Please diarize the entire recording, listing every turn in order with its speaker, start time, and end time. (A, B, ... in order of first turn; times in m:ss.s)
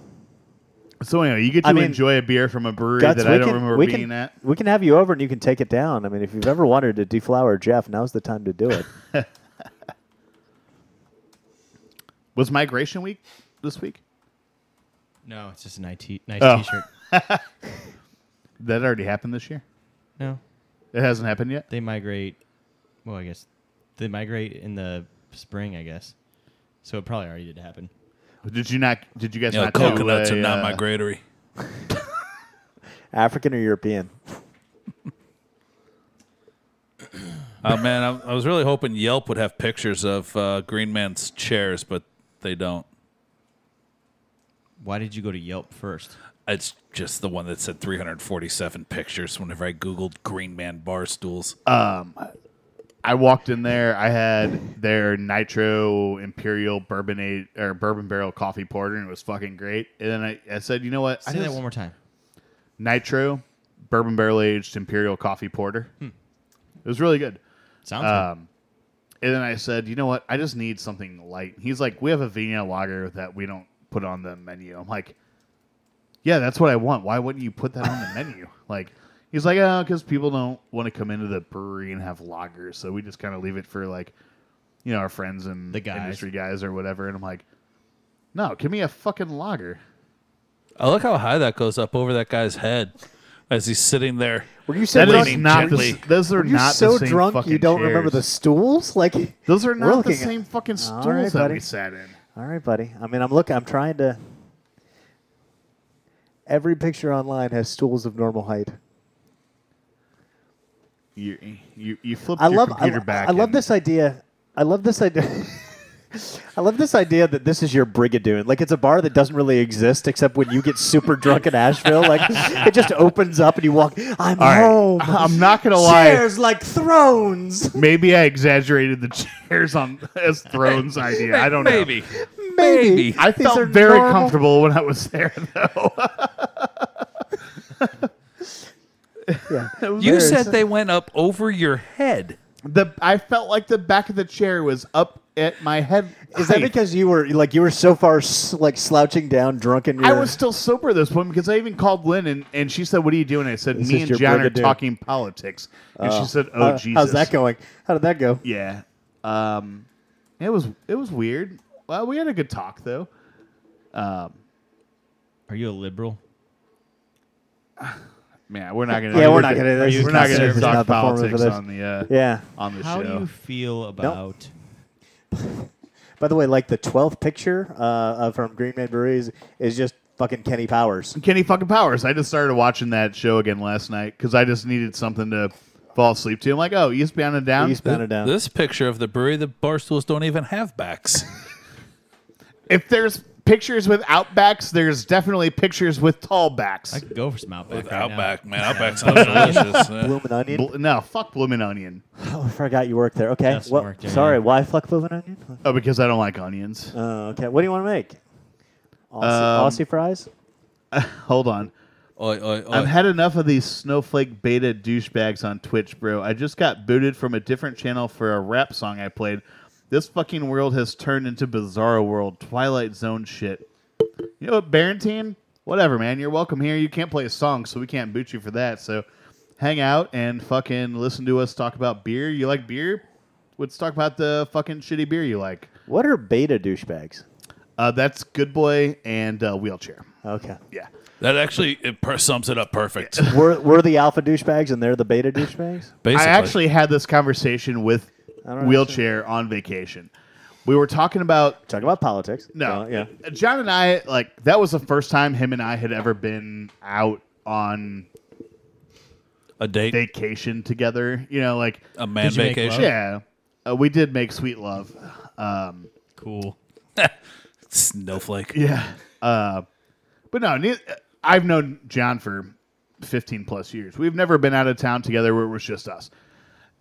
0:01.0-0:04.3 A
0:01.6-0:02.0 B
0:03.0-0:08.9 B
0:12.4-0:14.0 A
0:15.2-0:16.9 C
0:16.4-0:17.4 A
0:18.6-0:19.6 A
0:20.9-0:21.7 A
0:21.7-0:22.4 C
0:23.0-0:23.5 C
0:24.0-0:26.2 C
0:26.8-0:27.9 C
0:28.4-0:30.8 A
0:29.5-0:31.2 D
0:33.1-0:34.2 B
0:37.6-0:42.9 D
0:44.8-0:46.2 C
0:46.5-0:51.6 D
0:51.7-0:52.3 A
0:53.0-1:01.6 A
1:01.2-1:02.0 C
1:02.8-1:05.9 A
1:06.8-1:07.4 A
1:07.8-1:08.3 C
1:08.0-1:08.5 A
1:09.2-1:15.2 A
1:16.2-1:24.1 A
1:24.8-1:27.4 A
1:25.7-1:26.2 C
1:28.3-1:29.8 A
1:30.8-1:32.9 D
1:33.5-1:36.0 D
1:34.7-1:41.6 B
1:34.9-1:38.2 A
1:39.5-1:42.2 A
1:42.4-1:44.2 B
1:46.5-1:48.8 B
1:51.2-1:53.6 A
1:52.4-2:07.8 B
2:04.4-2:06.2 A
2:07.8-2:11.9 A
2:11.2-2:13.2 D
2:12.1-2:14.4 B
2:13.2-2:16.9 A
2:17.8-2:18.1 A
2:19.3-2:20.6 A
2:19.5-2:20.6 B
2:20.0-2:22.4 D
2:22.6-2:26.7 A
2:26.3-2:30.4 B
2:30.0-2:37.3 A
2:33.7-2:34.8 B
2:36.0-2:38.4 B
2:38.4-2:39.9 A
2:40.4-2:43.1 A
2:43.9-2:44.4 A
2:45.5-2:46.2 C
2:47.8-2:53.3 A
2:49.1-2:52.5 B
2:49.1-2:50.8 C
2:52.8-2:54.5 C
2:55.3-3:01.2 B
3:01.2-3:08.0 A
3:07.6-3:08.3 B
3:08.2-3:11.3 D
3:12.7-3:17.0 A
3:16.9-3:19.8 C
3:17.7-3:20.2 D
3:19.1-3:19.6 A
3:19.2-3:20.7 B
3:20.5-3:22.0 A
3:22.2-3:25.6 B
3:23.5-3:24.4 C
3:25.6-3:26.9 A
3:26.9-3:28.2 B
3:29.1-3:30.3 B
3:29.2-3:29.8 A
3:30.9-3:31.7 A
3:32.2-3:32.9 D
3:32.7-3:43.6 A
3:44.4-3:49.0 A
3:49.6-3:53.0 A
3:53.6-3:55.7 A
3:55.9-3:57.2 B
3:57.8-4:00.1 A
4:00.2-4:00.6 B
4:01.2-4:03.3 D
4:03.2-4:05.9 B
4:06.0-4:06.6 D
4:06.1-4:10.1 A
4:08.4-4:09.0 B
4:10.6-4:11.6 A
4:11.7-4:13.1 B
4:12.5-4:18.1 A
4:19.6-4:20.0 D
4:19.9-4:21.9 A
4:22.0-4:22.9 D
4:22.2-4:22.9 C
4:22.7-4:25.9 A
4:26.2-4:26.6 C
4:27.7-4:28.6 D
4:28.5-4:29.6 A
4:30.3-4:36.1 A